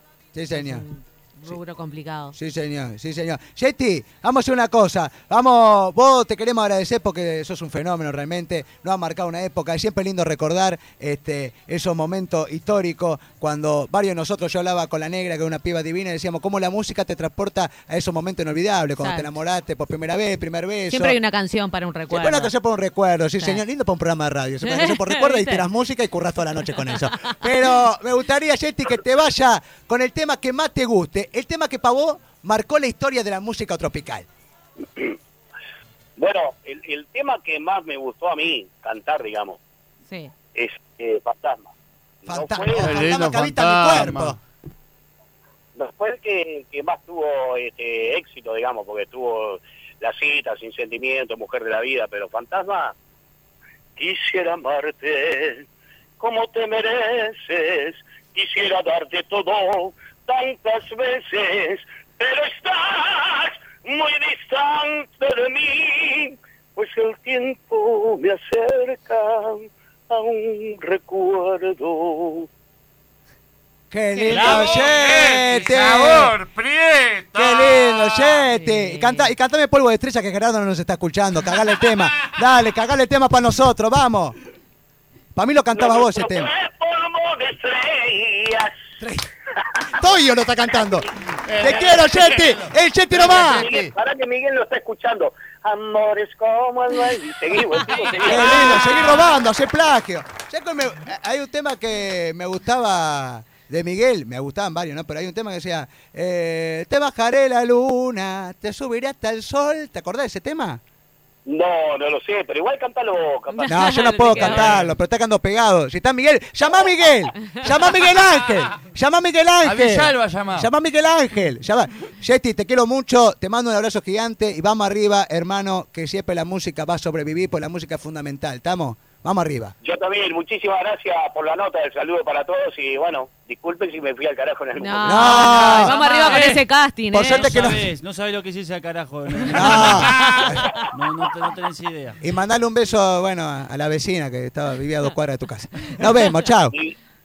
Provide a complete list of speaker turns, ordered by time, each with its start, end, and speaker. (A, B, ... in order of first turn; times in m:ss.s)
0:00.3-0:00.8 A
0:00.5-0:02.4 B
0:02.3-0:21.2 A
0:19.0-0:19.3 B
0:20.9-0:22.5 B
0:22.1-0:34.2 A
0:24.6-0:25.6 B
0:26.9-0:27.4 B
0:36.2-0:39.6 C
0:40.1-0:40.3 B
0:40.6-0:41.7 C
0:42.3-0:43.0 C
0:42.3-0:44.4 A
0:42.7-0:44.4 D
0:45.8-0:53.0 C
0:54.0-0:55.6 C
0:56.2-1:12.5 C
1:13.9-1:16.4 A
1:14.2-1:14.8 B
1:14.3-1:15.5 E
1:14.5-1:18.3 D
1:17.3-1:24.4 A
1:18.5-1:19.3 B
1:25.4-1:26.5 A
1:25.7-1:28.7 C
1:29.0-1:29.3 A
1:29.9-1:33.7 A
1:31.4-1:33.9 D
1:33.2-1:38.9 C
1:38.2-1:50.8 A
1:38.5-1:39.0 D
1:51.5-1:53.8 C
1:53.5-1:54.8 B
1:53.6-2:09.7 A
1:54.5-1:54.9 D
1:59.6-2:00.7 D
2:09.8-2:15.7 C
2:14.8-2:17.5 B
2:15.0-2:16.0 A
2:15.3-2:16.7 E
2:17.1-2:17.9 A
2:17.2-2:22.2 E
2:19.5-2:20.8 A
2:19.8-2:20.7 B
2:22.2-2:26.7 A